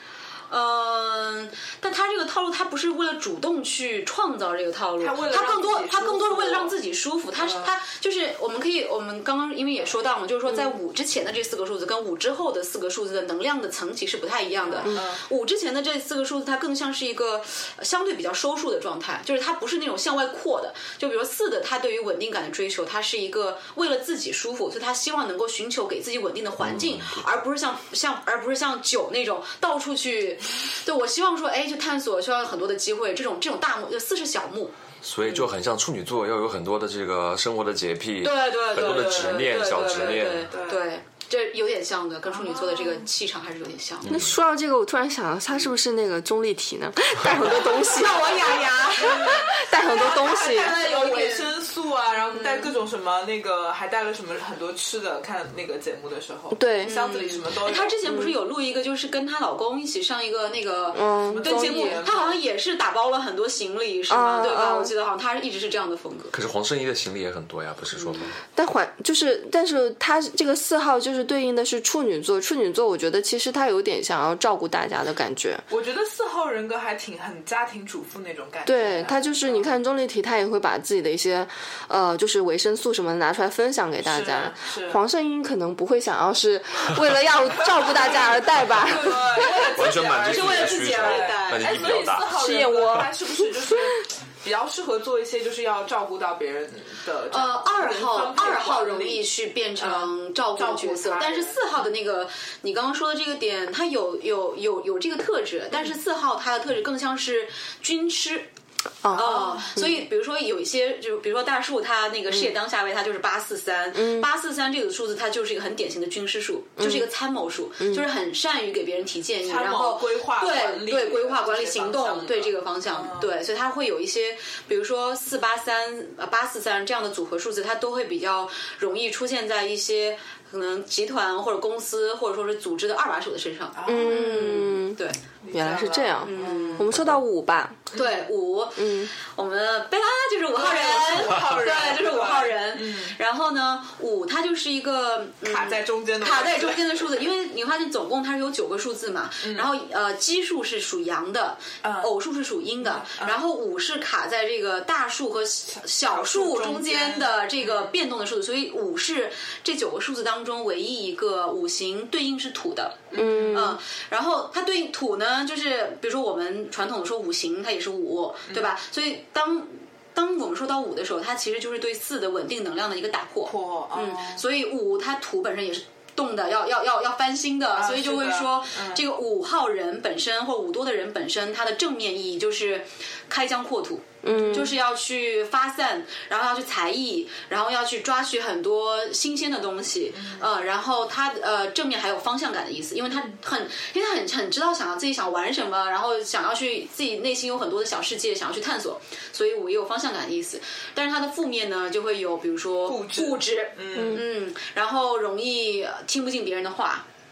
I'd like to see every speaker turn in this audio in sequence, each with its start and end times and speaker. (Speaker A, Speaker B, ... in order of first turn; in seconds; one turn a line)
Speaker A: 0.5-35.5
Speaker B: 5.0-6.7
Speaker B: 7.4-7.7
Speaker B: 14.7-15.2
Speaker C: 26.6-27.2
Speaker C: 35.0-40.5
Speaker A: 38.2-44.1
Speaker B: 38.9-40.8
Speaker B: 42.3-43.1
Speaker C: 44.0-44.3
Speaker D: 44.1-50.8
Speaker A: 47.5-51.5
Speaker B: 49.0-58.0
Speaker A: 52.3-52.7
Speaker D: 56.5-57.0
Speaker A: 56.8-66.3
Speaker D: 58.0-58.3
Speaker D: 60.9-62.0
Speaker B: 61.3-62.4
Speaker D: 64.1-64.9
Speaker C: 66.3-68.4
Speaker D: 68.5-75.6
Speaker B: 75.7-79.8
Speaker D: 78.7-89.7
Speaker B: 84.0-85.0
Speaker B: 87.7-99.3
Speaker A: 88.9-91.9
Speaker C: 89.7-92.3
Speaker D: 92.3-93.9
Speaker A: 97.3-108.5
Speaker B: 99.8-101.8
Speaker D: 109.0-109.3
Speaker A: 109.1-135.2
Speaker B: 109.1-109.8
Speaker D: 113.9-114.2
Speaker D: 116.8-117.1
Speaker B: 119.4-123.3
Speaker B: 133.7-134.6
Speaker D: 133.8-135.0
Speaker B: 135.4-136.9
Speaker D: 135.5-137.9
Speaker A: 136.2-136.9
Speaker C: 136.9-137.2
Speaker B: 137.9-138.2
Speaker A: 137.9-207.0
Speaker D: 138.8-139.1
Speaker B: 140.5-143.2
Speaker B: 145.4-147.1
Speaker B: 149.4-149.7
Speaker B: 151.8-152.1
Speaker B: 152.8-153.4
Speaker B: 155.8-157.9
Speaker B: 163.1-163.7
Speaker D: 163.1-163.8
Speaker B: 173.4-174.4
Speaker B: 177.8-179.0
Speaker D: 184.2-184.7
Speaker B: 190.1-190.5
Speaker B: 202.8-204.2
Speaker D: 203.9-204.2